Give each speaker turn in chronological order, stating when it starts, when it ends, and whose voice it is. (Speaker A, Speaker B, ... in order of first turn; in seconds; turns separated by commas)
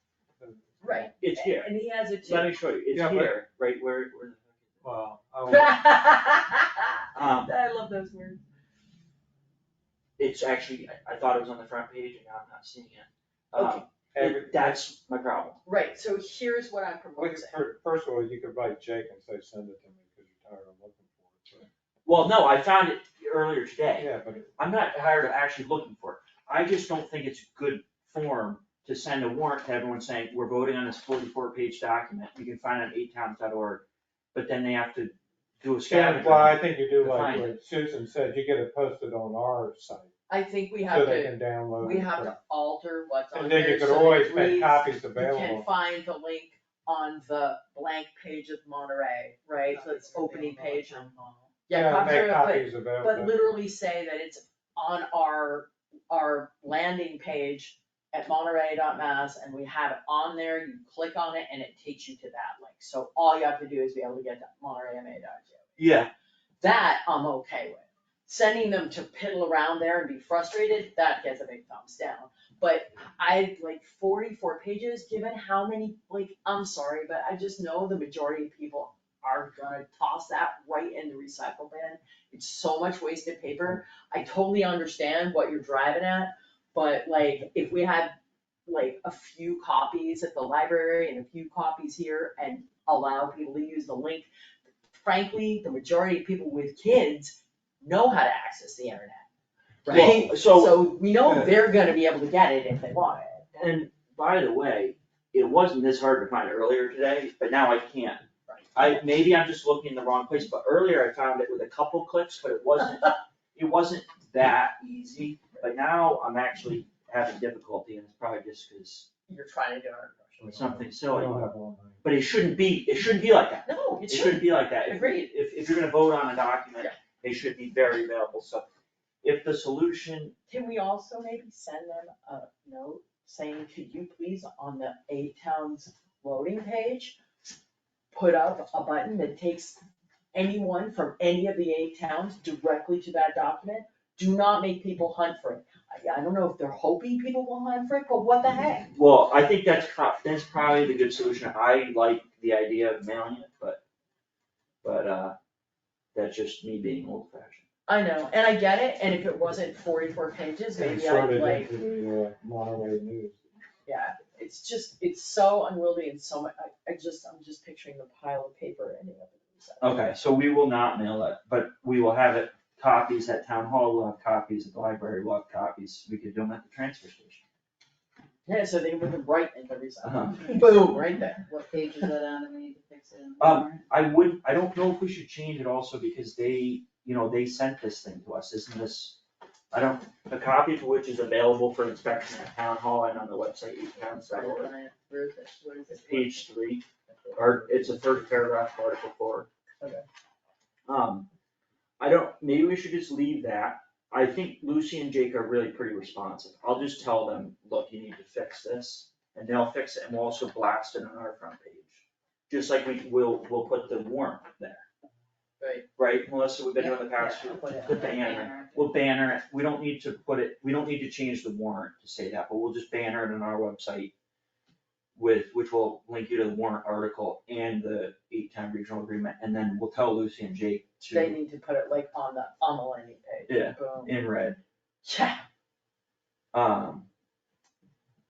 Speaker A: 0.4-1.1, Speaker B: 0.8-2.5, Speaker C: 1.2-1.7, Speaker C: 2.2-4.8, Speaker A: 2.9-3.4, Speaker A: 4.8-5.8, Speaker B: 5.5-8.4, Speaker C: 7.1-7.5, Speaker C: 10.2-15.6, Speaker B: 13.5-13.8, Speaker A: 14.1-14.8, Speaker B: 15.7-17.6, Speaker A: 17.2-21.7, Speaker C: 22.1-37.5, Speaker A: 23.9-24.5, Speaker A: 35.8-40.1, Speaker B: 37.1-37.5, Speaker B: 40.3-51.1, Speaker A: 40.9-42.3, Speaker A: 43.3-45.7, Speaker D: 49.7-51.5, Speaker B: 51.6-65.8, Speaker A: 51.7-53.4, Speaker C: 65.8-66.1, Speaker B: 66.6-88.1, Speaker B: 88.7-94.3, Speaker B: 95.0-99.2, Speaker B: 99.8-103.4, Speaker C: 99.8-101.5, Speaker C: 103.5-119.1, Speaker B: 108.5-108.8, Speaker B: 119.3-120.6, Speaker A: 120.4-122.0, Speaker C: 120.5-121.4, Speaker C: 122.0-128.7, Speaker B: 123.6-125.3, Speaker C: 129.2-130.3, Speaker B: 130.5-137.2, Speaker B: 138.1-139.8, Speaker B: 140.3-148.9, Speaker C: 148.9-153.8, Speaker C: 154.8-155.3, Speaker C: 156.1-157.6, Speaker B: 157.9-161.7, Speaker A: 160.8-163.4, Speaker B: 163.8-170.1, Speaker C: 169.8-177.4, Speaker B: 178.4-181.5, Speaker C: 180.0-180.4, Speaker D: 180.4-183.8, Speaker C: 183.4-189.2, Speaker C: 189.7-194.7, Speaker B: 194.3-196.0, Speaker D: 195.8-196.4, Speaker C: 195.9-199.5, Speaker B: 197.1-197.7, Speaker C: 200.9-201.3, Speaker C: 202.0-214.8, Speaker C: 216.0-224.1, Speaker D: 216.8-218.9, Speaker C: 225.2-231.4, Speaker B: 231.1-234.1, Speaker C: 233.5-234.6, Speaker B: 235.0-235.4, Speaker C: 236.5-237.1